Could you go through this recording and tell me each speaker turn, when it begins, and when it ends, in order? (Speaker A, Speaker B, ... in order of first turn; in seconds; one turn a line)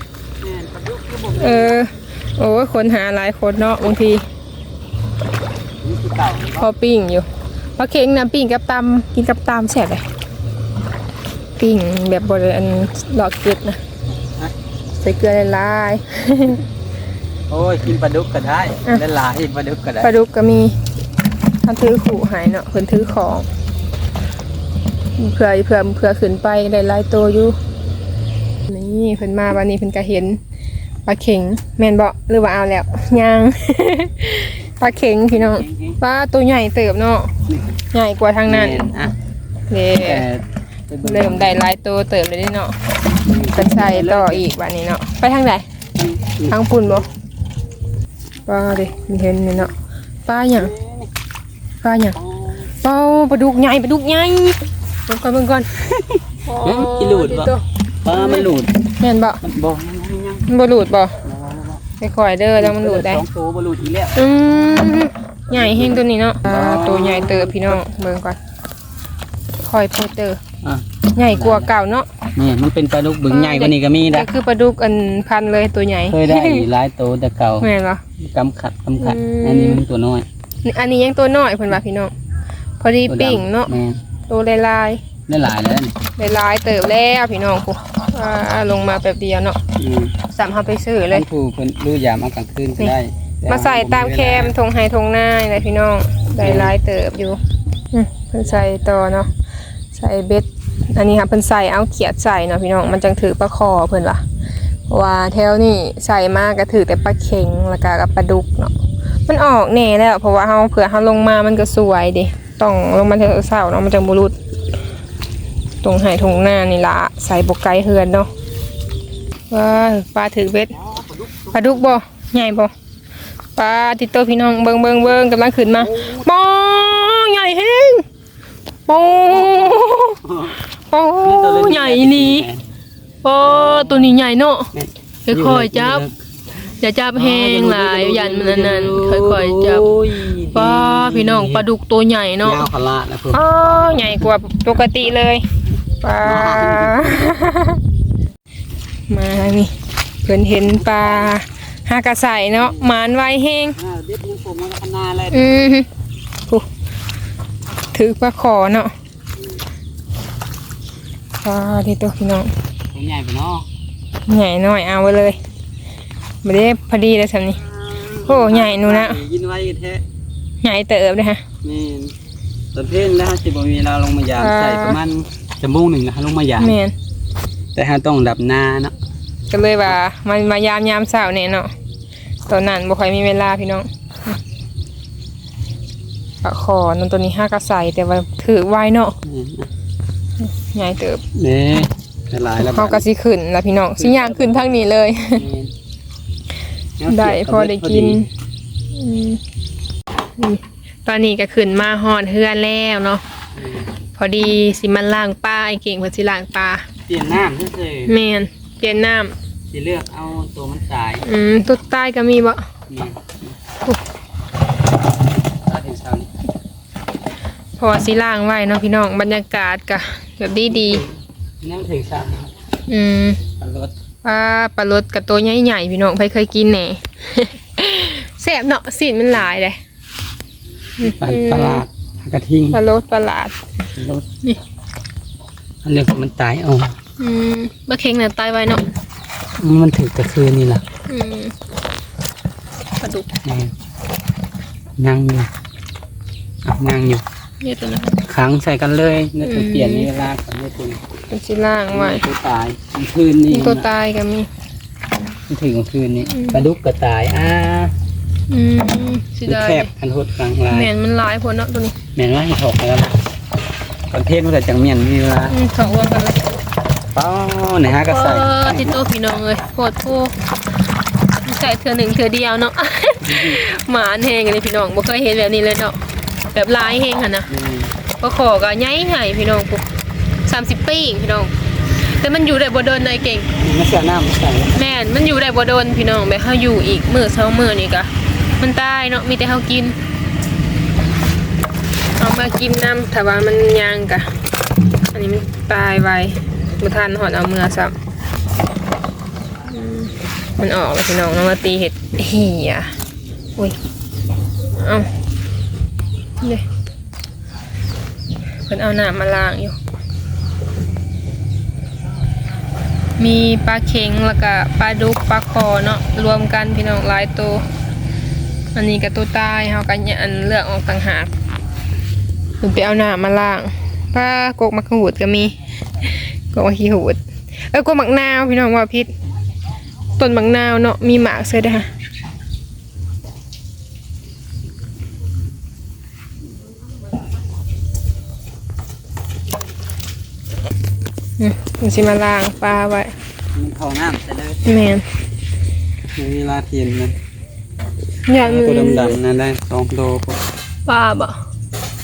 Speaker A: 0.4-1.8
Speaker B: 1.4-4.2
Speaker A: 5.8-6.7
Speaker B: 6.6-10.0
Speaker B: 11.6-13.8
Speaker A: 14.2-14.5
Speaker B: 15.0-16.6
Speaker A: 17.5-20.1
Speaker B: 20.0-20.7
Speaker B: 21.6-23.5
Speaker B: 25.2-27.6
Speaker B: 28.7-30.4
Speaker B: 31.1-37.3
Speaker A: 35.3-36.0
Speaker B: 37.9-38.9
Speaker A: 38.5-39.1
Speaker B: 39.7-40.2
Speaker A: 39.9-41.6
Speaker B: 41.0-42.8
Speaker A: 43.1-44.5
Speaker B: 43.5-45.6
Speaker A: 46.0-46.9
Speaker B: 46.5-47.1
Speaker B: 48.5-49.7
Speaker B: 50.2-50.7
Speaker A: 50.5-51.1
Speaker B: 51.8-52.1
Speaker A: 52.1-52.7
Speaker B: 52.8-55.7
Speaker A: 55.8-57.5
Speaker B: 56.4-57.6
Speaker A: 58.0-58.7
Speaker B: 58.1-58.5
Speaker B: 59.0-59.4
Speaker A: 59.4-60.5
Speaker B: 60.5-61.2
Speaker A: 61.2-61.8
Speaker B: 62.0-63.2
Speaker A: 62.6-64.2
Speaker B: 64.2-68.4
Speaker A: 65.5-67.8
Speaker B: 69.6-70.4
Speaker A: 70.6-71.7
Speaker B: 71.1-72.1
Speaker A: 72.3-74.3
Speaker B: 73.3-76.6
Speaker A: 76.1-77.7
Speaker B: 77.6-78.0
Speaker A: 78.2-80.2
Speaker B: 79.0-79.8
Speaker B: 80.6-82.1
Speaker B: 82.8-83.7
Speaker A: 83.1-84.0
Speaker B: 84.3-85.0
Speaker A: 85.3-86.0
Speaker B: 86.2-89.6
Speaker A: 89.8-90.1
Speaker B: 90.3-91.2
Speaker A: 91.1-94.5
Speaker B: 93.5-97.4
Speaker A: 96.3-96.7
Speaker B: 97.9-99.3
Speaker A: 98.4-98.9
Speaker B: 99.9-104.2
Speaker B: 104.9-108.7
Speaker B: 109.3-114.3
Speaker B: 115.8-118.3
Speaker B: 119.5-120.7
Speaker A: 120.7-121.9
Speaker B: 121.5-122.7
Speaker B: 123.5-128.1
Speaker A: 125.8-126.3
Speaker B: 128.9-130.2
Speaker A: 129.3-130.6
Speaker B: 130.9-132.5
Speaker A: 131.2-132.6
Speaker B: 133.2-134.7
Speaker A: 133.4-134.1
Speaker A: 134.7-136.1
Speaker B: 135.2-136.1
Speaker B: 136.7-139.9
Speaker A: 137.1-141.7
Speaker B: 140.5-142.6
Speaker A: 142.4-144.3
Speaker B: 143.3-145.4
Speaker B: 146.0-147.8
Speaker A: 146.2-147.3
Speaker B: 149.1-149.7
Speaker B: 150.2-153.8
Speaker A: 150.6-151.3
Speaker A: 152.5-152.9
Speaker A: 153.8-155.5
Speaker B: 155.3-155.9
Speaker B: 157.9-158.9
Speaker B: 161.4-162.5
Speaker A: 162.9-163.7
Speaker B: 164.3-165.4
Speaker B: 166.4-167.6
Speaker A: 167.6-170.0
Speaker B: 168.2-169.2
Speaker B: 170.6-171.4
Speaker A: 171.6-172.1
Speaker A: 172.7-176.8
Speaker B: 174.3-175.0
Speaker B: 176.6-176.9
Speaker A: 177.7-178.9
Speaker B: 179.5-181.7
Speaker B: 182.5-184.4
Speaker B: 186.4-189.1
Speaker A: 189.2-189.7
Speaker B: 190.4-191.2
Speaker A: 191.3-193.0
Speaker B: 192.6-195.4
Speaker A: 194.0-195.7
Speaker A: 197.0-198.2
Speaker B: 197.1-198.3
Speaker B: 198.9-199.4
Speaker B: 200.4-203.2
Speaker A: 203.6-203.9
Speaker B: 204.1-206.9
Speaker A: 207.1-208.1
Speaker B: 208.1-209.3
Speaker A: 209.7-211.2
Speaker B: 211.2-212.6
Speaker A: 212.9-213.6
Speaker A: 215.7-216.3
Speaker B: 217.8-221.0
Speaker A: 220.7-222.5
Speaker B: 222.9-223.4
Speaker A: 223.6-223.9
Speaker B: 224.2-229.8
Speaker B: 231.0-231.8
Speaker A: 231.0-232.8
Speaker B: 232.7-233.5
Speaker A: 233.9-234.2
Speaker A: 235.8-236.9
Speaker B: 237.2-238.8
Speaker A: 239.6-240.8
Speaker B: 241.1-241.5
Speaker B: 243.0-243.3
Speaker A: 243.4-243.7
Speaker A: 245.0-245.5
Speaker A: 246.7-247.2
Speaker B: 247.6-248.2
Speaker A: 248.2-251.0
Speaker B: 249.4-250.1
Speaker B: 251.3-252.2
Speaker A: 251.9-253.8
Speaker B: 253.5-254.5
Speaker A: 255.5-257.9
Speaker B: 256.3-256.6
Speaker B: 258.5-259.9
Speaker A: 259.4-260.9
Speaker B: 260.7-261.9
Speaker A: 262.1-263.2
Speaker A: 264.1-265.5
Speaker B: 265.5-266.4
Speaker A: 267.1-269.0
Speaker B: 268.1-270.3
Speaker B: 271.4-276.0
Speaker A: 273.2-273.6
Speaker B: 276.5-277.5
Speaker A: 277.5-277.9
Speaker B: 278.2-279.8
Speaker B: 280.4-283.5
Speaker A: 283.6-284.8
Speaker B: 284.7-289.9
Speaker B: 292.2-294.3
Speaker B: 295.1-297.9
Speaker B: 299.7-302.9
Speaker B: 304.8-305.1
Speaker B: 306.4-306.6
Speaker B: 308.6-309.8
Speaker B: 313.2-317.6
Speaker B: 318.7-321.3
Speaker B: 322.6-329.1
Speaker B: 330.1-331.9
Speaker B: 341.4-343.1
Speaker A: 343.5-344.6
Speaker B: 344.6-345.0
Speaker A: 346.1-347.2
Speaker B: 348.3-349.2
Speaker A: 348.4-350.4
Speaker B: 350.9-351.4